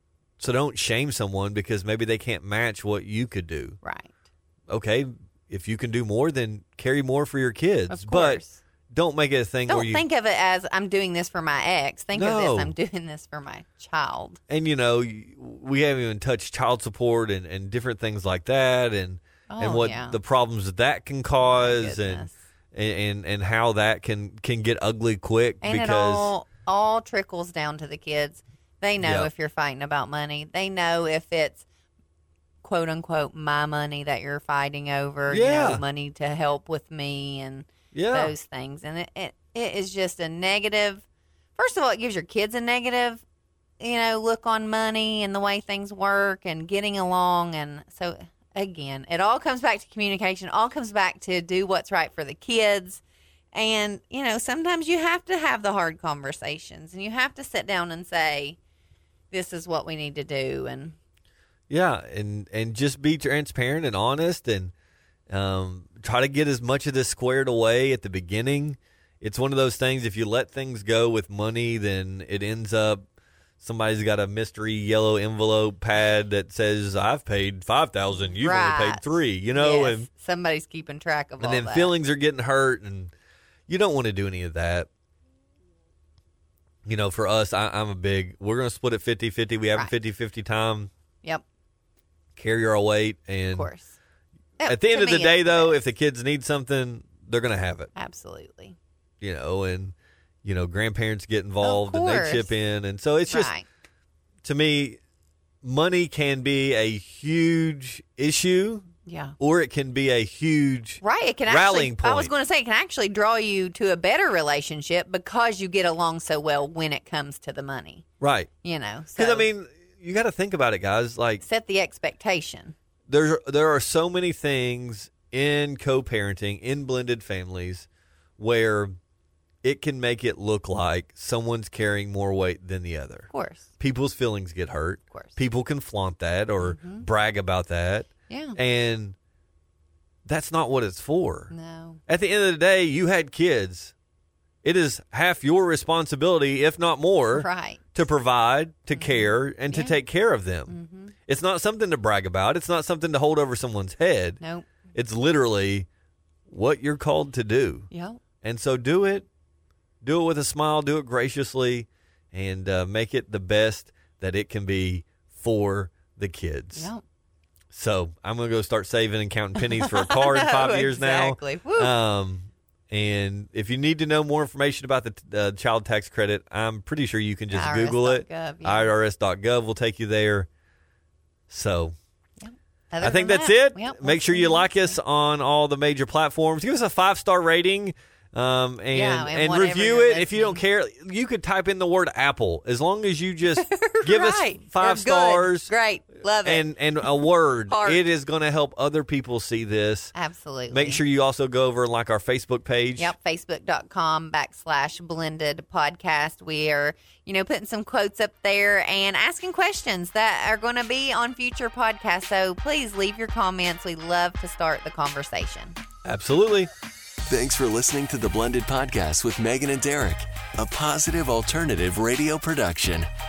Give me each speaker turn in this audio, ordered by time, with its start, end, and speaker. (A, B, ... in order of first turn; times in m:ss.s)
0:00.4-0:03.8 A
0:03.8-0:04.1 B
0:04.7-0:10.0 A
0:07.9-0:08.6 B
0:09.7-0:14.4 B
0:12.1-0:12.7 A
0:14.5-0:26.3 A
0:19.5-0:20.2 B
0:21.4-0:22.3 B
0:25.6-0:31.6 B
0:29.0-0:29.3 A
0:32.6-0:41.0 B
0:35.3-0:35.8 A
0:37.9-0:38.3 A
0:41.6-0:43.2 B
0:43.8-0:53.0 B
0:53.5-0:58.6 B
0:59.3-1:01.0 B
1:01.7-1:04.7 A
1:05.3-1:13.0 A
1:13.6-1:20.1 A
1:18.3-1:21.9 B
1:21.4-1:23.1 A
1:23.7-1:24.9 A
1:26.8-1:30.9 A
1:32.4-1:33.7 A
1:33.5-1:33.9 B
1:34.6-1:35.8 B
1:34.6-1:37.9 A
1:38.0-1:38.8 B
1:39.2-1:43.5 A
1:41.6-1:42.5 B
1:43.3-1:43.6 B
1:44.4-1:45.0 A
1:45.6-1:52.3 A
1:49.0-1:49.4 B
1:51.0-1:58.0 B
1:58.2-1:58.5 A
1:58.6-1:59.5 B
1:59.2-2:01.4 A
2:01.4-2:02.7 B
2:03.1-2:07.9 A
2:08.4-2:08.9 A
2:09.6-2:19.1 A
2:13.3-2:13.6 B
2:16.6-2:17.0 B
2:18.3-2:18.6 B
2:20.2-2:21.5 A
2:21.5-2:22.0 B
2:22.1-2:23.9 A
2:24.6-2:30.7 A
2:27.3-2:27.9 B
2:28.9-2:30.0 B
2:30.7-2:31.1 B
2:31.3-2:34.4 A
2:34.4-2:34.6 B
2:34.9-2:35.9 A
2:36.5-2:37.9 A
2:37.9-2:38.2 B
2:38.4-2:39.3 A
2:40.0-2:46.9 A
2:46.8-2:47.0 B
2:47.7-3:00.5 A
2:49.6-2:51.9 B
2:57.5-2:58.9 B
3:01.5-3:01.9 A
3:02.4-3:05.0 B
3:03.0-3:15.7 A
3:08.9-3:10.6 B
3:13.6-3:18.0 B
3:16.4-3:20.1 A
3:20.1-3:21.0 B
3:20.7-3:23.1 A
3:23.0-3:35.8 B
3:36.0-3:36.7 A
3:37.2-3:43.1 C